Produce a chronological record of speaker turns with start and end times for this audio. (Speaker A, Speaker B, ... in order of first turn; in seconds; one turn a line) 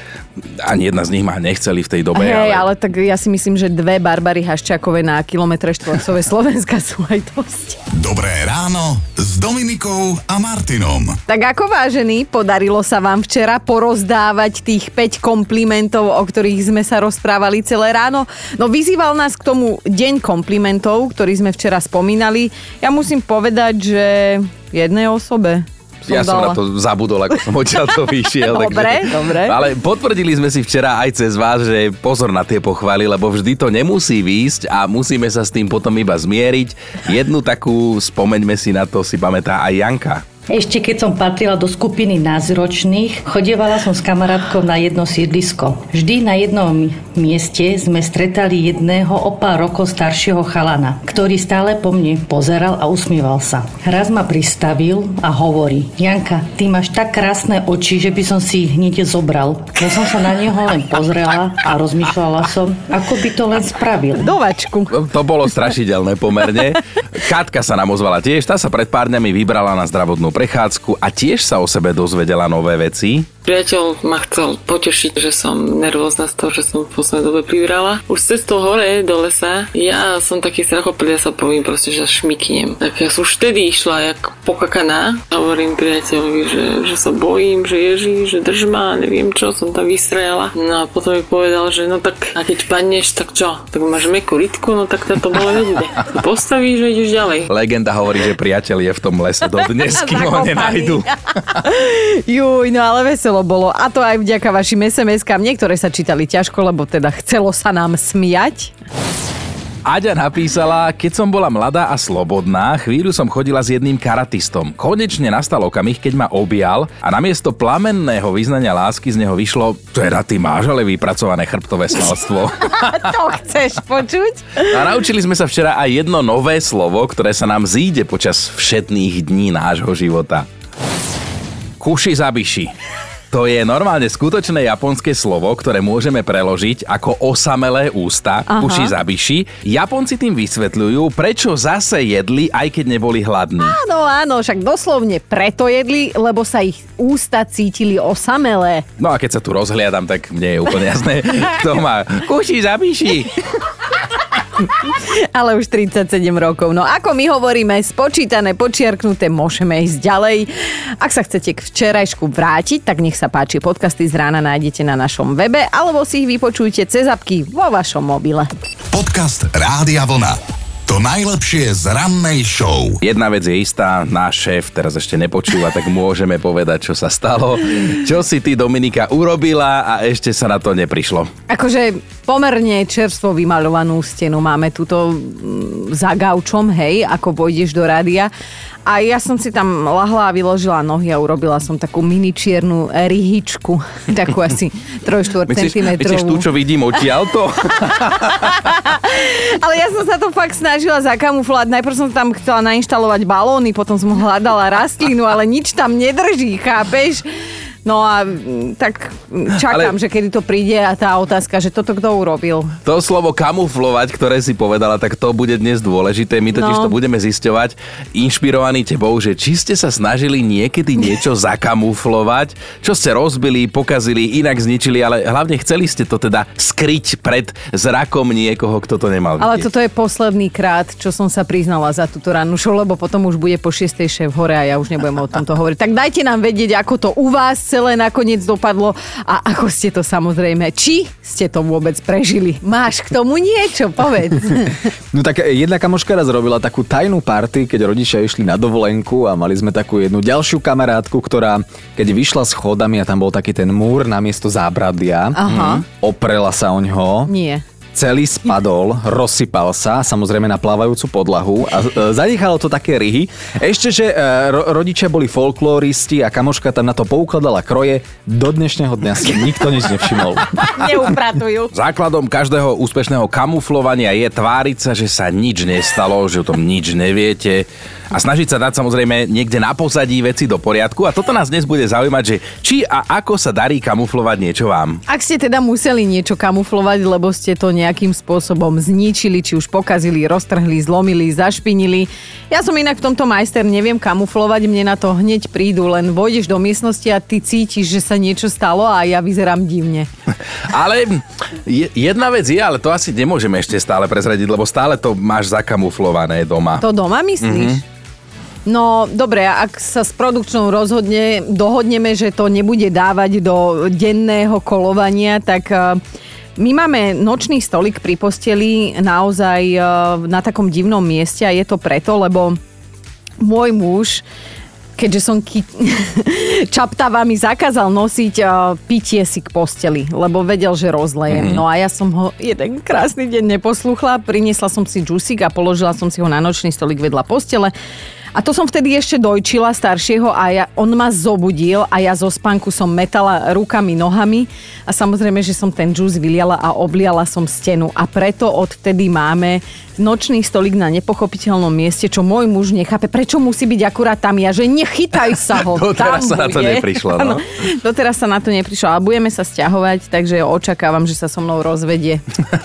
Speaker A: 0.6-2.6
Speaker B: 2.1-7.8
Speaker C: 7.9-11.2
Speaker B: 11.3-26.6
Speaker A: 26.1-40.2
Speaker B: 28.3-29.6
Speaker D: 40.5-64.3
Speaker B: 64.2-64.9
Speaker A: 64.9-73.3
Speaker E: 73.4-97.5
Speaker A: 97.5-101.1
Speaker B: 99.8-108.7
Speaker A: 109.8-123.1
Speaker B: 122.7-124.8
Speaker A: 124.7-130.4
Speaker A: 131.8-132.7
Speaker A: 133.3-143.8
Speaker B: 138.5-138.9
Speaker B: 143.6-148.8
Speaker A: 149.0-153.3
Speaker B: 154.8-168.5
Speaker C: 168.9-173.0
Speaker A: 173.0-181.3
Speaker B: 181.5-188.3
Speaker B: 188.8-196.4
Speaker A: 195.5-198.4
Speaker B: 198.4-207.2
Speaker B: 207.8-212.7
Speaker A: 209.5-209.9
Speaker A: 212.8-229.7
Speaker B: 216.5-216.9
Speaker B: 229.4-244.8
Speaker F: 245.1-255.4
Speaker B: 255.3-255.8
Speaker A: 255.4-255.8
Speaker F: 256.0-257.3
Speaker B: 257.3-257.6
Speaker F: 257.9-270.8
Speaker B: 270.6-271.7
Speaker A: 271.7-285.0
Speaker B: 285.1-300.1
Speaker A: 300.7-306.8
Speaker B: 306.8-307.8
Speaker A: 307.4-307.8
Speaker B: 308.6-316.0
Speaker B: 316.6-322.6
Speaker B: 323.4-324.2
Speaker B: 325.0-337.7
Speaker A: 331.3-331.6
Speaker B: 338.3-362.2
Speaker A: 355.5-357.4